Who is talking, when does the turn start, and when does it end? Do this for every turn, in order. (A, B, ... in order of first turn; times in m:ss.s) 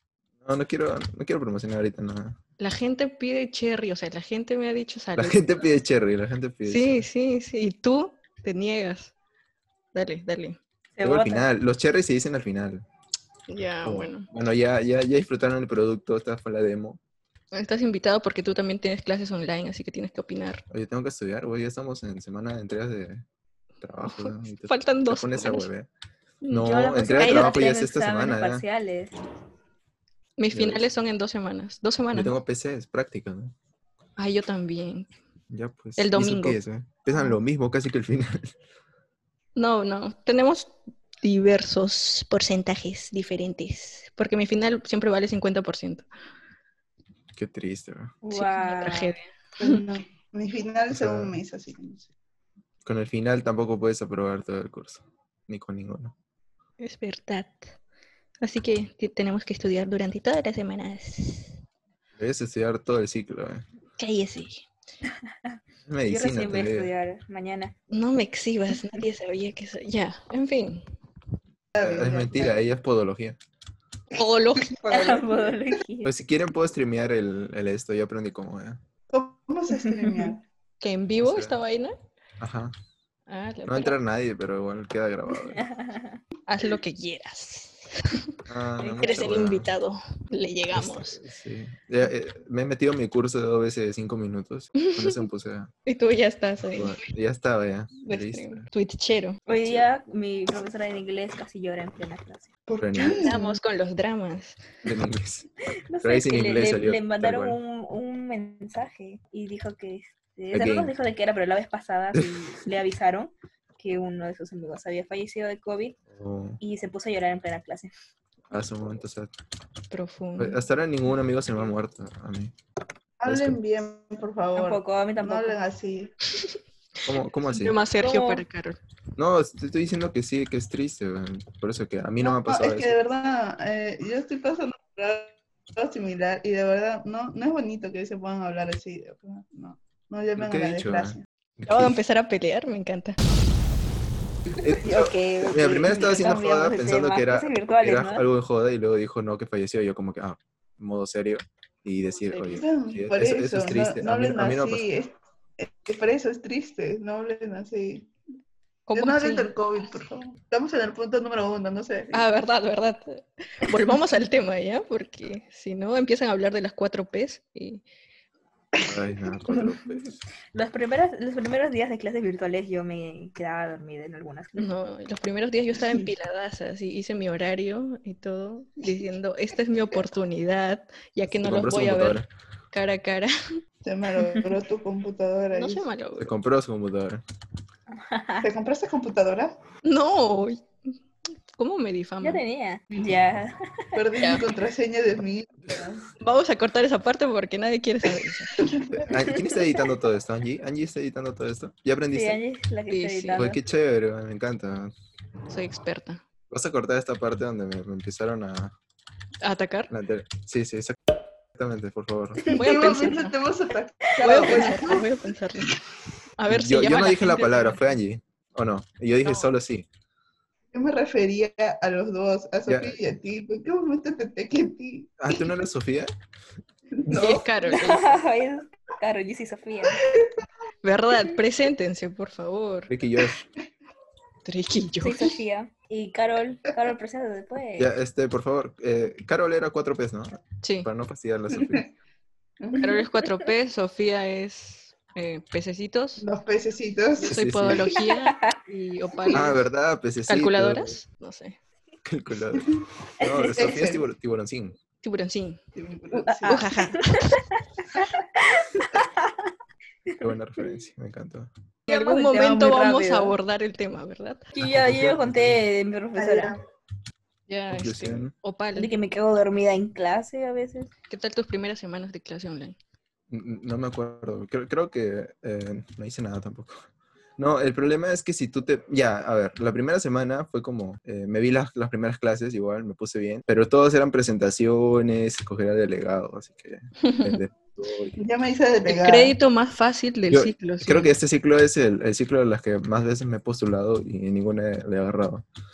0:00.4-0:02.4 A
0:02.6-0:05.4 B
0:05.2-0:07.0 A
0:06.7-0:09.1 B
0:09.9-0:10.6 B
0:11.0-0:11.4 C
0:11.0-0:12.8 A
0:13.5-0:14.3 B
0:13.8-0:17.0 A
0:17.5-0:20.6 B
0:20.7-0:23.2 A
0:23.8-0:25.9 A
0:24.0-0:25.7 B
0:26.5-0:28.6 A
0:26.5-0:29.1 C
0:27.2-0:27.5 B
0:30.4-0:32.3 B
0:30.5-0:30.8 A
0:32.1-0:33.5 A
0:34.2-0:35.1 B
0:35.5-0:38.5 A
0:36.0-0:36.6 B
0:39.6-0:46.0 B
0:47.4-0:48.2 A
0:48.2-0:49.2 C
0:48.3-0:49.8 B
0:49.6-0:52.1 D
0:50.9-0:51.4 A
0:52.8-0:56.1 A
0:56.8-0:57.7 B
0:58.4-1:01.5 B
1:02.2-1:03.6 A
1:04.0-1:04.6 B
1:05.9-1:06.9 A
1:06.1-1:07.7 C
1:07.9-1:10.8 B
1:11.7-1:12.6 D
1:11.8-1:13.4 A
1:14.1-1:14.8 B
1:14.7-1:15.6 D
1:14.9-1:16.1 C
1:16.0-1:18.8 A
1:19.1-1:20.4 D
1:19.9-1:20.3 C
1:20.8-1:21.9 B
1:21.2-1:21.6 A
1:22.4-1:22.7 A
1:23.3-1:24.0 B
1:23.7-1:25.6 A
1:25.5-1:26.2 C
1:26.5-1:31.2 B
1:28.5-1:29.7 A
1:29.0-1:29.4 C
1:30.7-1:35.7 A
1:34.8-1:35.2 B
1:35.8-1:37.0 B
1:36.7-1:38.7 A
1:38.0-1:39.4 B
1:39.5-1:39.8 A
1:39.5-1:42.5 C
1:42.7-1:43.6 D
1:42.8-1:43.2 A
1:43.2-1:44.6 B
1:44.8-1:45.5 A
1:45.9-1:56.0 C
1:46.0-1:47.6 A
1:50.5-1:50.9 A
1:52.1-1:52.5 A
1:56.1-1:56.6 A
1:56.6-1:57.9 C
1:58.5-1:59.3 A
1:59.9-2:00.6 B
2:00.4-2:02.5 A
2:03.2-2:06.1 D
2:03.2-2:03.6 A
2:04.6-2:05.6 C
2:07.0-2:07.8 A
2:07.5-2:08.8 B
2:08.0-2:08.4 C
2:09.2-2:13.0 A
2:12.2-2:21.2 D
2:20.4-2:22.0 A
2:21.6-2:23.2 B
2:24.6-2:34.8 A
2:24.8-2:28.2 C
2:32.3-2:32.6 B
2:32.6-2:38.1 D
2:38.9-2:39.5 B
2:38.9-2:42.3 D
2:42.1-2:47.8 B
2:48.8-2:50.2 A
2:50.5-2:54.7 C
2:54.6-3:03.6 B
2:55.8-2:56.1 D
3:01.3-3:02.2 A
3:03.8-3:05.8 D
3:05.5-3:06.3 B
3:06.2-3:07.2 A
3:07.9-3:08.5 C
3:08.4-3:09.6 D
3:09.8-3:10.6 B
3:11.5-3:12.4 B
3:12.2-3:13.8 C
3:13.9-3:16.0 D
3:16.2-3:18.6 B
3:18.6-3:19.1 D
3:19.1-3:22.4 A
3:22.1-3:23.6 C
3:22.9-3:23.5 B
3:23.4-3:24.9 A
3:25.5-3:26.2 B
3:26.5-3:28.7 A
3:29.4-3:29.9 B
3:29.9-3:31.0 A
3:31.5-3:32.4 A
3:32.5-3:35.1 D
3:32.5-3:33.3 B
3:34.2-3:35.7 B
3:34.4-3:34.9 C
3:36.4-3:37.8 B
3:36.5-3:39.8 A
3:39.2-3:39.5 B
3:40.7-3:45.2 D
3:42.7-3:43.0 A
3:45.2-3:46.1 A
3:46.9-3:47.5 D
3:47.1-3:48.2 B
3:47.7-3:50.0 C
3:50.0-3:50.3 D
3:50.8-3:52.9 B
3:52.9-3:53.4 A
3:54.4-3:55.3 B
3:55.0-3:57.9 C
3:57.8-4:01.9 A
4:00.6-4:00.9 B
4:01.6-4:01.8 D
4:02.6-4:03.0 D
4:02.8-4:06.2 B
4:06.2-4:07.3 D
4:07.2-4:09.7 B
4:07.3-4:07.9 A
4:08.0-4:08.5 C
4:09.3-4:11.0 A
4:10.3-4:11.6 B
4:12.0-4:12.7 A
4:13.2-4:14.8 A
4:13.2-4:13.6 C
4:13.5-4:14.0 D
4:15.0-4:15.6 B
4:15.7-4:16.6 D
4:16.2-4:17.4 C
4:16.4-4:17.4 B
4:17.9-4:19.5 C
4:20.2-4:21.5 A
4:21.9-4:23.4 C
4:21.9-4:24.5 B
4:24.5-4:26.5 C
4:24.6-4:25.6 A
4:26.2-4:26.6 D
4:27.5-4:28.9 B
4:27.7-4:28.3 A
4:28.8-4:30.9 C
4:31.1-4:32.8 B
4:33.3-4:36.8 A
4:37.4-4:48.2 A
4:47.0-4:47.4 B
4:48.2-4:49.3 D
4:48.9-4:51.1 B
4:50.3-4:55.4 A